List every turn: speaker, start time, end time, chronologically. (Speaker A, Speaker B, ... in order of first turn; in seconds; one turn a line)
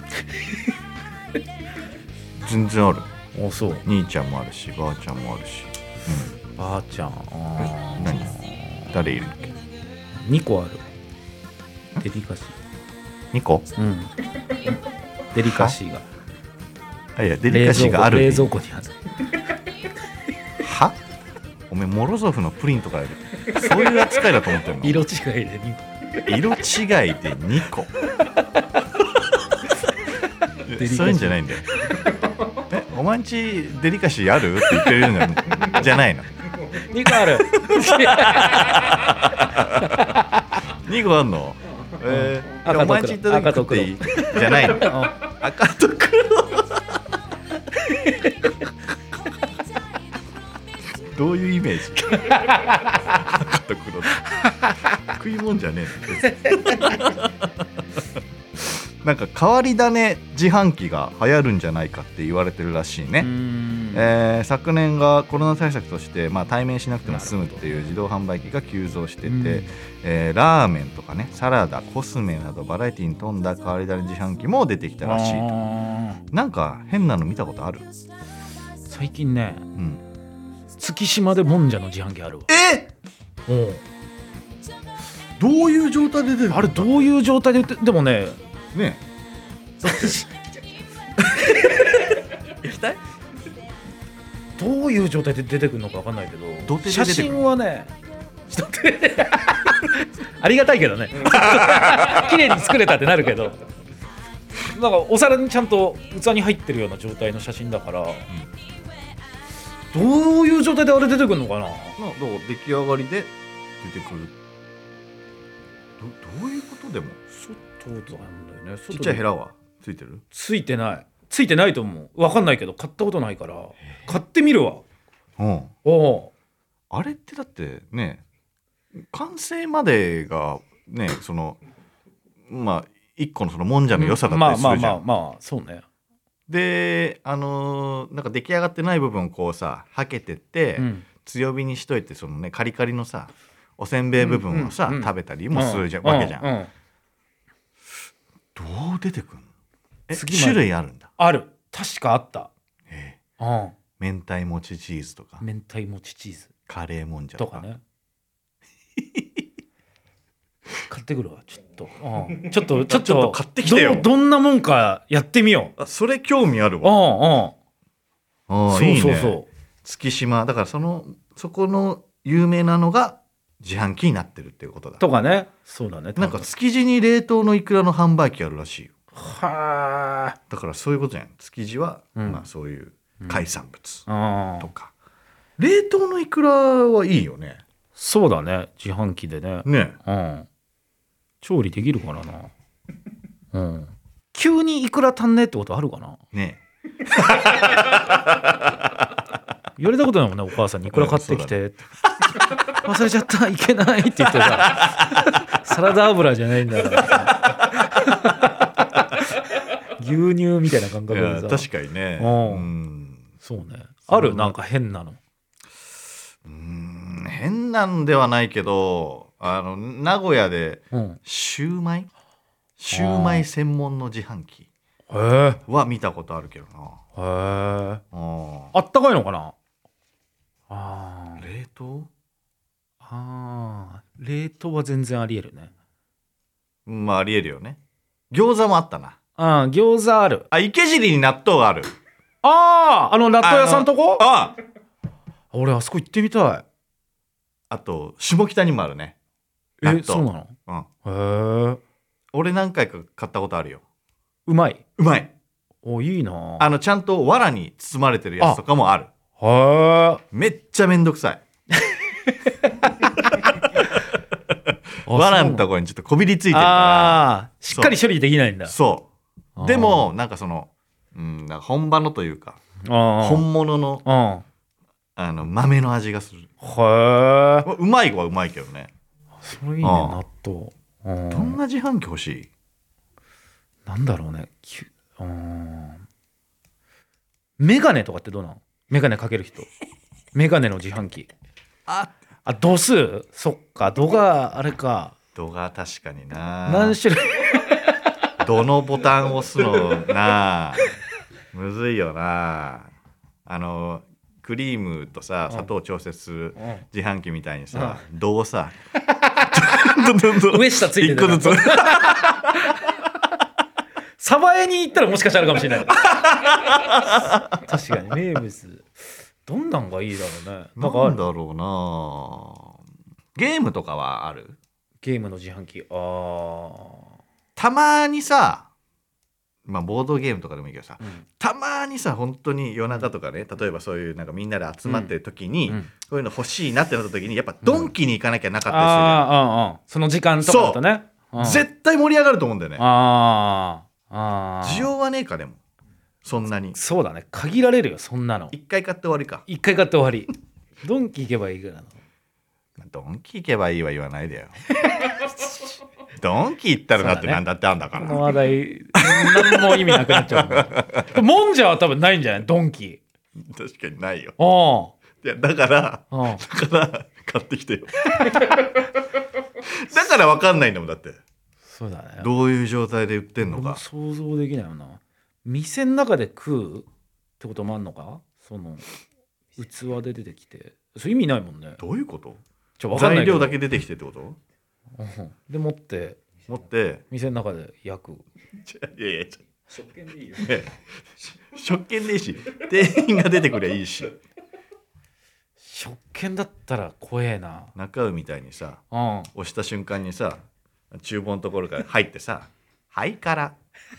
Speaker A: 0.3-0.6
Speaker B: 2.4-3.1
Speaker A: 3.3-3.8
Speaker B: 3.9-6.3
Speaker A: 6.5-8.9
Speaker B: 8.0-8.3
Speaker B: 8.9-9.5
Speaker A: 10.1-10.8
Speaker A: 12.0-12.6
Speaker B: 13.3-13.7
Speaker A: 13.8-16.1
Speaker B: 15.4-15.8
Speaker B: 17.1-18.5
Speaker A: 17.5-19.0
Speaker B: 20.6-21.0
Speaker B: 21.7-25.1
Speaker A: 24.6-26.4
Speaker B: 26.2-27.9
Speaker A: 28.0-28.7
Speaker B: 30.6-31.7
Speaker A: 30.8-32.2
Speaker B: 32.7-36.3
Speaker A: 34.6-35.0
Speaker A: 36.6-40.6
Speaker B: 37.5-40.1
Speaker B: 40.7-47.0
Speaker A: 42.0-45.2
Speaker A: 47.7-48.7
Speaker B: 51.0-54.2
Speaker A: 52.2-53.2
Speaker A: 54.2-55.0
Speaker B: 55.0-57.7
Speaker A: 56.1-57.2
Speaker B: 58.6-63.3
Speaker A: 63.2-64.1
Speaker B: 63.9-75.5
Speaker A: 67.0-67.8
Speaker A: 69.2-69.7
Speaker A: 75.0-76.2
Speaker B: 76.3-77.9
Speaker A: 78.9-79.7
Speaker B: 79.8-80.0
Speaker A: 80.8-82.5
Speaker B: 82.5-82.9
Speaker A: 83.5-83.8
Speaker B: 85.4-87.0
Speaker A: 86.5-88.4
Speaker B: 88.7-89.0
Speaker A: 89.8-90.4
Speaker A: 91.2-92.2
Speaker B: 91.3-91.6
Speaker B: 92.6-93.0
Speaker A: 94.6-97.9
Speaker B: 96.6-97.5
Speaker A: 98.5-103.6
Speaker B: 101.3-102.2
Speaker A: 104.6-108.3
Speaker A: 109.9-112.0
Speaker B: 112.0-114.3
Speaker B: 116.0-117.2
Speaker A: 117.3-119.2
Speaker B: 118.9-120.2
Speaker A: 120.3-124.8
Speaker B: 125.4-125.7
Speaker A: 125.8-126.3
Speaker B: 126.9-128.2
Speaker B: 129.0-131.6
Speaker B: 132.5-135.0
Speaker A: 133.9-135.8
Speaker B: 136.5-146.5
Speaker A: 140.8-141.1
Speaker A: 144.2-146.7
Speaker B: 148.5-149.5
Speaker B: 150.1-151.1
Speaker A: 150.1-150.6
Speaker A: 151.2-152.5
Speaker B: 152.9-153.2
Speaker A: 153.4-153.8
Speaker B: 154.0-155.4
Speaker A: 155.4-156.5
Speaker B: 156.7-157.7
Speaker A: 157.4-157.8
Speaker A: 160.9-165.7
Speaker B: 162.7-164.1
Speaker B: 165.8-167.0
Speaker A: 166.8-167.5
Speaker B: 168.5-175.0
Speaker A: 168.7-169.5
Speaker A: 175.0-176.5
Speaker B: 176.2-178.9
Speaker A: 179.1-180.4
Speaker B: 180.5-184.1
Speaker A: 182.2-182.4
Speaker A: 184.1-184.7
Speaker B: 184.6-184.9
Speaker B: 185.6-187.6
Speaker A: 187.9-190.5
Speaker B: 189.6-190.0
Speaker A: 191.4-192.5
Speaker A: 193.5-196.2
Speaker B: 196.3-198.9
Speaker A: 199.8-201.8
Speaker B: 200.9-201.6
Speaker A: 202.7-211.7
Speaker B: 204.4-205.5
Speaker B: 207.1-207.5
Speaker B: 211.1-213.2
Speaker A: 212.2-212.7
Speaker A: 213.4-215.2
Speaker B: 214.1-214.5
Speaker B: 216.4-222.1
Speaker A: 220.9-221.2
Speaker B: 222.8-224.7
Speaker A: 222.9-223.5
Speaker A: 225.1-225.6
Speaker B: 225.7-227.0
Speaker A: 227.2-228.0
Speaker B: 228.1-228.7
Speaker A: 228.7-229.5
Speaker A: 230.7-231.4
Speaker B: 231.4-232.1
Speaker A: 233.0-235.7
Speaker B: 236.8-237.8
Speaker B: 238.3-239.2
Speaker A: 239.4-240.5
Speaker B: 240.5-241.9
Speaker A: 242.4-244.2
Speaker B: 243.4-244.5
Speaker A: 245.5-246.6
Speaker B: 247.7-249.2
Speaker A: 249.8-251.8
Speaker B: 249.8-250.9
Speaker B: 252.3-253.8
Speaker A: 254.4-254.8
Speaker B: 255.0-255.3
Speaker A: 255.8-256.7
Speaker B: 256.6-259.1
Speaker A: 259.4-260.2
Speaker B: 260.3-261.4
Speaker A: 261.8-263.6
Speaker B: 263.2-264.0
Speaker B: 265.0-267.9
Speaker A: 265.1-265.6
Speaker A: 266.5-268.7
Speaker B: 268.6-269.1
Speaker A: 269.6-270.1
Speaker B: 269.6-272.6
Speaker A: 272.8-273.4
Speaker B: 273.2-274.0
Speaker A: 274.0-274.4
Speaker B: 275.1-276.5
Speaker A: 276.6-277.7
Speaker B: 277.6-278.9
Speaker A: 279.4-281.6
Speaker B: 279.8-280.2
Speaker B: 281.3-282.5
Speaker A: 283.9-286.0
Speaker A: 287.6-289.7
Speaker A: 290.3-291.3
Speaker B: 291.9-292.1
Speaker A: 292.4-295.1
Speaker B: 295.3-297.0
Speaker A: 296.6-298.0
Speaker B: 298.4-300.9
Speaker A: 299.6-300.0
Speaker B: 301.5-302.9
Speaker B: 303.4-308.8
Speaker A: 307.7-308.0
Speaker A: 309.1-312.9
Speaker B: 309.5-312.9
Speaker A: 314.2-316.1
Speaker B: 316.0-317.6
Speaker A: 317.6-321.2
Speaker B: 320.8-322.8
Speaker B: 323.4-324.6
Speaker A: 325.0-327.1
Speaker B: 327.6-328.7
Speaker B: 329.6-339.3
Speaker A: 334.9-335.1
Speaker A: 337.6-337.9
Speaker A: 338.7-341.6
Speaker B: 340.4-340.8
Speaker B: 341.4-342.8
Speaker A: 342.8-344.9
Speaker B: 344.6-345.6
Speaker B: 346.2-346.8
Speaker A: 346.7-348.5
Speaker B: 348.5-349.4
Speaker A: 349.5-350.3
Speaker A: 350.8-352.0
Speaker B: 352.8-354.6
Speaker A: 354.9-355.4
Speaker B: 356.1-358.3
Speaker A: 357.0-357.4
Speaker A: 357.9-363.0
Speaker B: 359.0-361.2
Speaker B: 363.4-364.4
Speaker A: 364.4-364.9
Speaker B: 365.2-368.6
Speaker A: 366.1-366.4
Speaker A: 368.2-368.6
Speaker B: 369.6-371.2
Speaker A: 371.6-372.3
Speaker B: 372.2-373.8
Speaker A: 373.4-376.9
Speaker A: 377.4-378.8
Speaker A: 379.6-381.8
Speaker B: 381.8-384.4
Speaker A: 382.8-383.6
Speaker A: 384.9-386.2
Speaker B: 386.5-387.0
Speaker A: 387.1-388.2
Speaker B: 388.6-389.4
Speaker B: 390.1-390.8
Speaker B: 391.5-394.2
Speaker A: 395.6-397.7
Speaker B: 397.7-398.8
Speaker A: 398.9-399.3
Speaker B: 399.3-400.4
Speaker B: 400.9-403.6